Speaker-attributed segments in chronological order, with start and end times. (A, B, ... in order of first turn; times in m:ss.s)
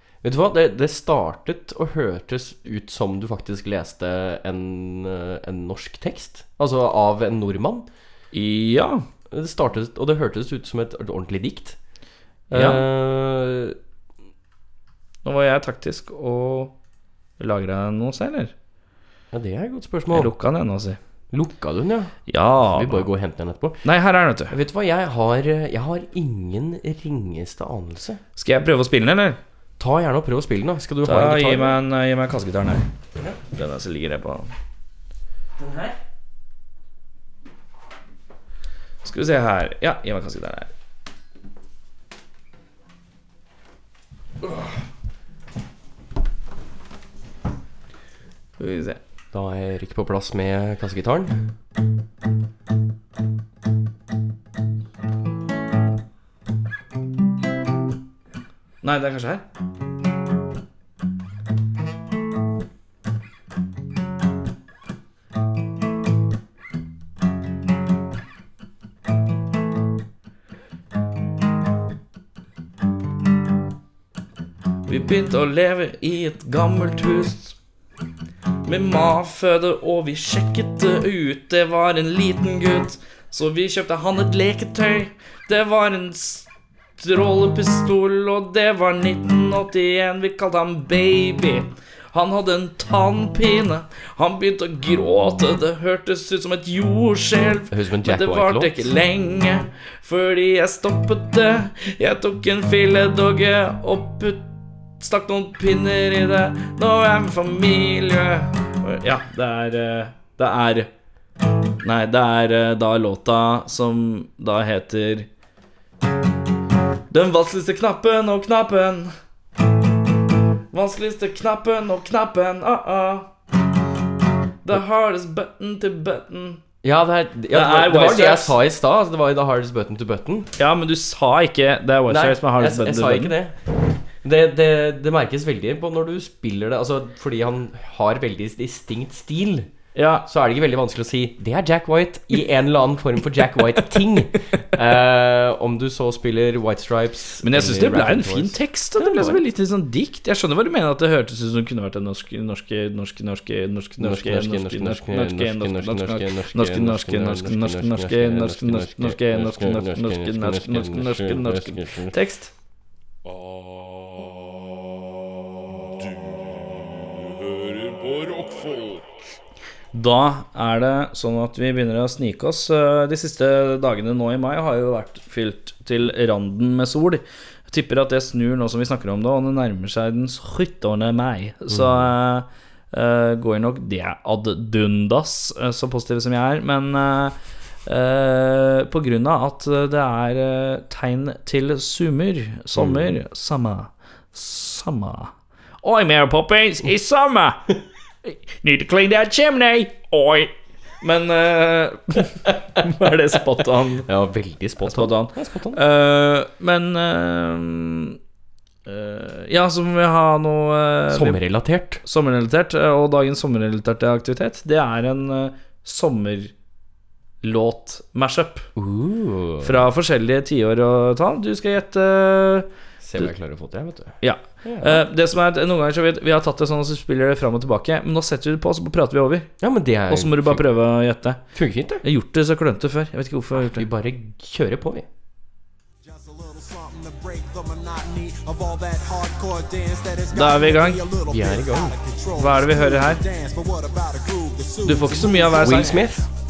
0:00.2-0:07.9 A
0:08.3-0:09.0 B
0:09.3-0:11.8 A
0:12.5-0:13.8 A
0:12.5-0:12.8 B
0:15.2-0:16.7 B
0:17.4-0:18.5 B
0:19.3-0:20.3 A
0:20.1-0:21.0 B
0:21.3-0:23.8 A
0:22.3-0:23.1 B
0:23.8-0:24.5 B
0:24.5-0:28.2 A
0:28.4-0:29.4 B
0:29.8-0:31.8 A
0:31.0-0:32.8 B
0:33.5-0:34.5 B
0:35.6-0:36.0 A
0:39.0-0:40.7 B
0:48.6-0:49.0 B
0:49.3-0:51.4 A
0:58.8-0:59.4 B
1:14.8-1:17.6 B
1:18.6-1:50.9 B
1:37.7-1:38.9 A
1:51.8-1:55.3 B
1:57.1-1:59.1 B
2:00.7-2:03.3 B
2:04.6-2:06.6 B
2:06.8-2:10.5 A
2:07.5-2:08.5 B
2:10.6-2:13.3 B
2:12.1-2:13.6 A
2:14.2-2:19.7 A
2:19.9-2:20.2 B
2:20.2-2:29.4 A
2:27.4-2:42.5 B
2:34.0-2:42.2 A
2:43.2-2:44.7 C
2:45.7-2:49.1 C
2:49.9-3:17.7 B
3:01.7-3:02.1 A
3:12.7-3:13.1 A
3:18.2-3:24.1 B
3:24.0-3:25.8 A
3:24.8-3:28.2 B
3:28.8-3:31.4 B
3:31.1-3:32.0 A
3:32.0-3:36.5 B
3:37.4-3:38.7 B
3:38.8-3:39.8 A
3:39.6-3:42.7 B
3:43.0-3:45.0 A
3:44.2-3:49.5 B
3:49.6-3:50.6 A
3:50.1-3:51.4 B
3:51.5-3:52.0 A
3:52.0-3:53.8 B
3:53.6-3:55.1 A
3:56.0-4:06.1 D
4:00.3-4:01.0 B
4:01.2-4:02.0 A
4:02.4-4:03.2 B
4:04.8-4:06.0 B
4:05.6-4:06.2 A